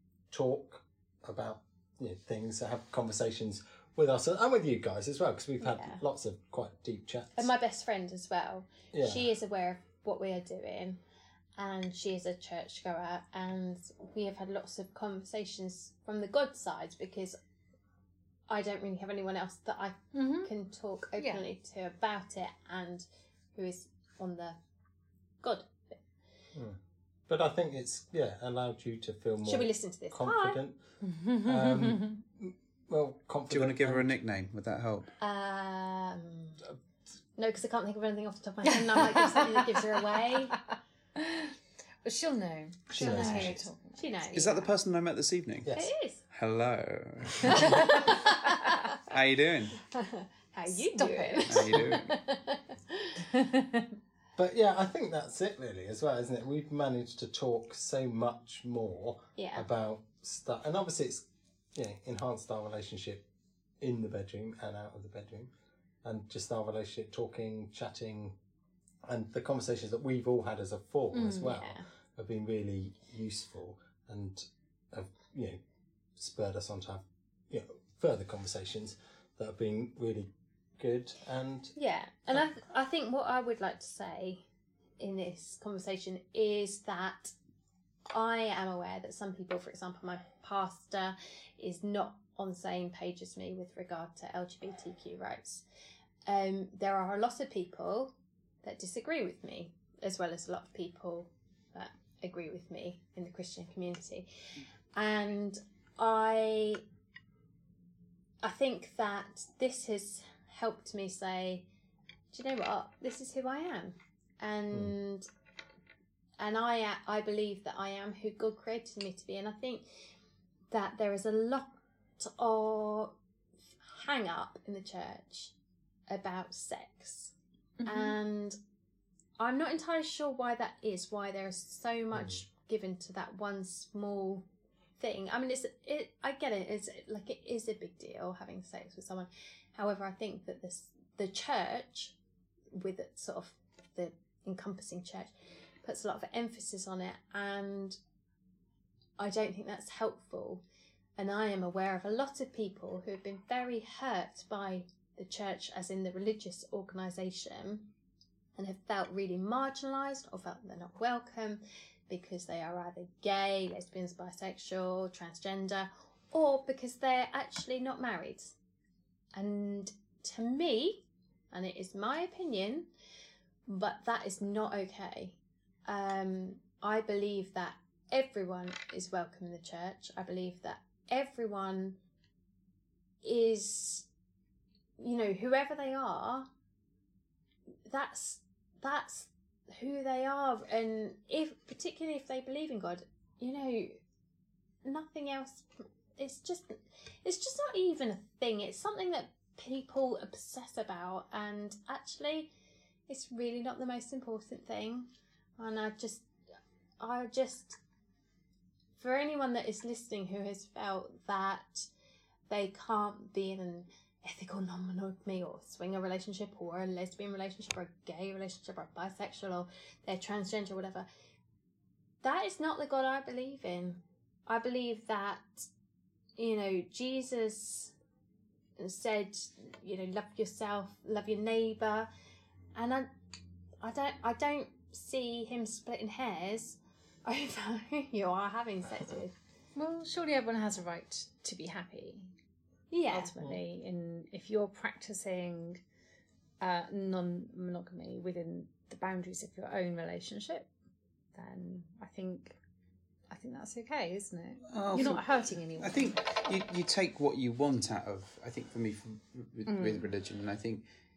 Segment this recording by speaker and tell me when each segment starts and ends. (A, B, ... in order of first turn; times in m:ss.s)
0:00.3-0:07.5 A
0:05.6-0:06.0 B
0:07.4-0:11.0 B
0:08.9-0:09.3 A
0:11.6-0:17.4 B
0:18.5-0:24.6 B
0:20.1-0:20.5 C
0:21.2-0:21.4 C
0:25.4-0:26.0 B
0:26.5-0:30.8 A
0:29.4-0:30.6 B
0:31.0-0:32.2 C
0:31.4-0:34.1 A
0:33.5-0:35.1 D
0:35.2-0:36.6 B
0:37.4-0:40.6 B
0:38.7-0:40.0 C
0:41.2-0:41.5 C
0:42.0-0:44.2 C
0:42.9-0:43.7 A
0:42.9-0:44.7 B
0:44.3-0:45.7 D
0:45.6-0:45.9 A
0:45.7-0:46.2 B
0:46.3-0:49.8 D
0:47.6-0:47.9 C
0:47.7-0:48.5 B
0:49.9-0:53.2 B
0:50.7-0:51.9 C
0:51.5-0:52.1 D
0:53.3-0:53.9 C
0:54.4-1:03.2 A
0:59.4-0:59.6 B
1:03.8-1:05.5 A
1:06.0-1:08.4 A
1:09.0-1:15.6 A
1:11.1-1:11.6 C
1:11.5-1:11.8 B
1:16.2-1:21.7 A
1:21.8-1:24.4 B
1:25.0-1:27.3 B
1:28.1-1:35.6 B
1:36.3-1:44.3 B
1:44.9-1:46.8 B
1:48.4-1:51.6 B
1:52.3-1:55.2 B
1:56.4-1:59.8 B
2:00.7-2:03.1 B
2:03.8-2:05.5 B
2:06.1-2:07.3 B
2:07.8-2:08.2 C
2:07.8-2:08.6 B
2:09.4-2:14.4 B
2:15.0-2:22.2 B
2:22.7-2:25.3 B
2:25.8-2:28.0 B
2:29.2-2:30.6 B
2:31.2-2:37.9 B
2:38.6-2:48.5 B
2:49.3-2:52.9 B
2:53.7-3:02.0 B
3:03.2-3:04.0 B
3:05.0-3:06.5 B
3:07.9-3:14.0 B
3:14.8-3:22.5 B
3:23.1-3:26.3 B
3:27.0-3:27.8 B
3:29.0-3:31.9 B
3:32.5-3:41.1 B
3:42.2-3:45.7 B
3:46.4-3:47.9 B
3:48.8-3:52.1 B
3:52.7-3:53.1 B
3:53.8-3:59.3 B
3:59.8-4:02.3 C
4:02.9-4:03.3 B
4:03.1-4:05.8 C
4:06.6-4:10.7 C
4:11.4-4:12.6 C
4:13.3-4:16.2 C
4:14.7-4:15.2 D
4:15.8-4:20.8 D
4:19.7-4:20.1 C